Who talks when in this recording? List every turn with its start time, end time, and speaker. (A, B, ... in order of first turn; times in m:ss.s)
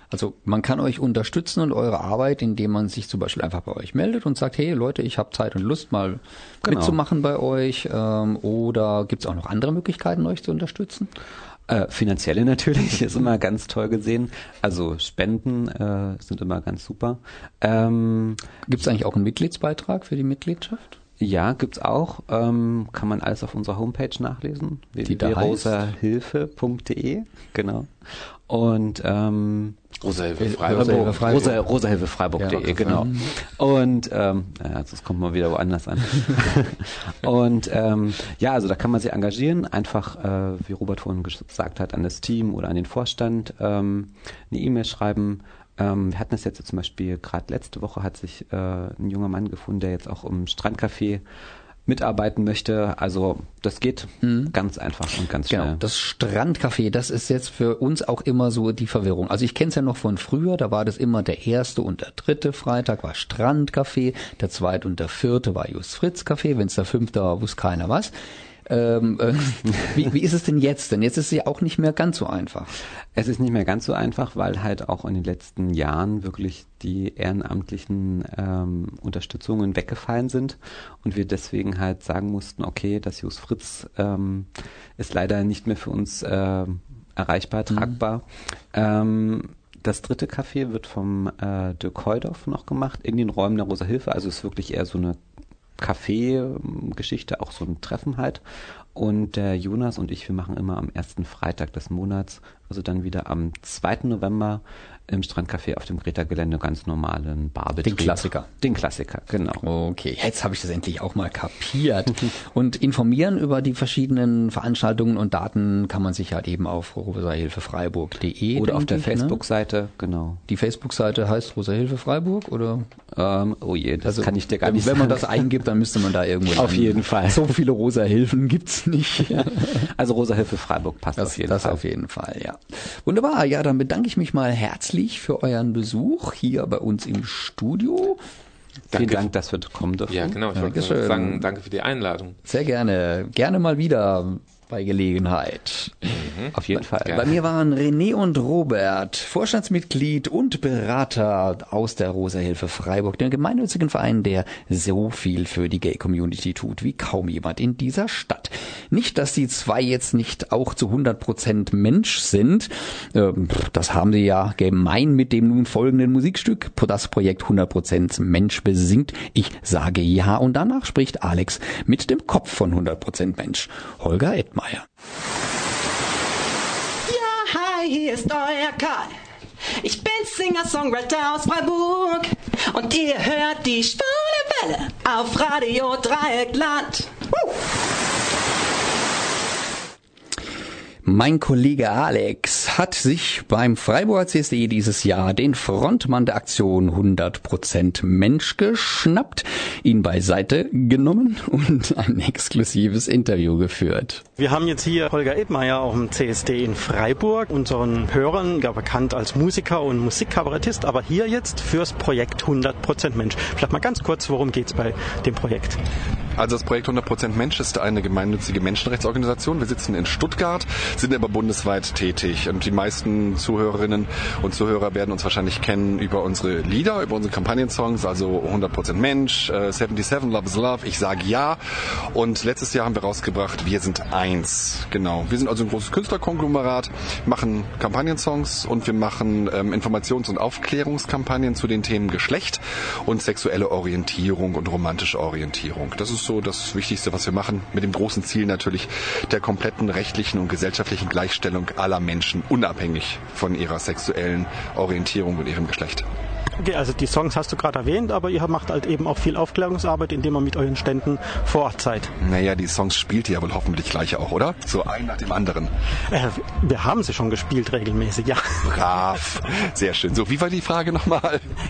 0:00.1-0:11.1 A
0:06.6-0:07.0 B
0:11.7-0:18.4 B
0:18.7-0:21.0 A
0:21.2-0:29.8 B
0:25.1-0:25.8 A
0:30.0-0:31.6 C
0:30.4-0:31.6 A
0:30.7-0:51.2 B
0:32.4-0:33.2 A
0:51.9-0:55.8 B
0:54.2-0:54.5 A
0:55.5-1:08.1 A
1:08.7-1:12.7 A
1:13.2-1:35.2 B
1:35.8-1:38.4 B
1:38.9-1:49.6 B
1:47.8-1:48.5 A
1:49.6-1:59.4 A
1:58.5-2:00.4 B
2:00.5-2:02.9 A
2:03.1-2:05.4 B
2:04.0-2:09.9 A
2:06.5-2:07.5 B
2:09.3-2:11.8 B
2:11.2-2:18.2 A
2:18.9-2:19.3 C
2:18.9-2:20.4 B
2:20.1-2:22.4 C
2:20.6-2:21.5 A
2:22.5-2:26.2 A
2:26.2-2:26.5 C
2:26.5-2:27.3 B
2:26.8-2:54.9 A
2:57.1-2:59.1 D
2:59.8-3:07.5 D
3:11.0-3:24.2 A
3:24.4-3:35.8 E
3:36.4-3:51.6 F
3:52.1-4:16.1 F
4:16.6-4:22.1 E
4:22.2-4:25.7 F
4:26.1-4:28.6 E
4:28.6-4:31.4 F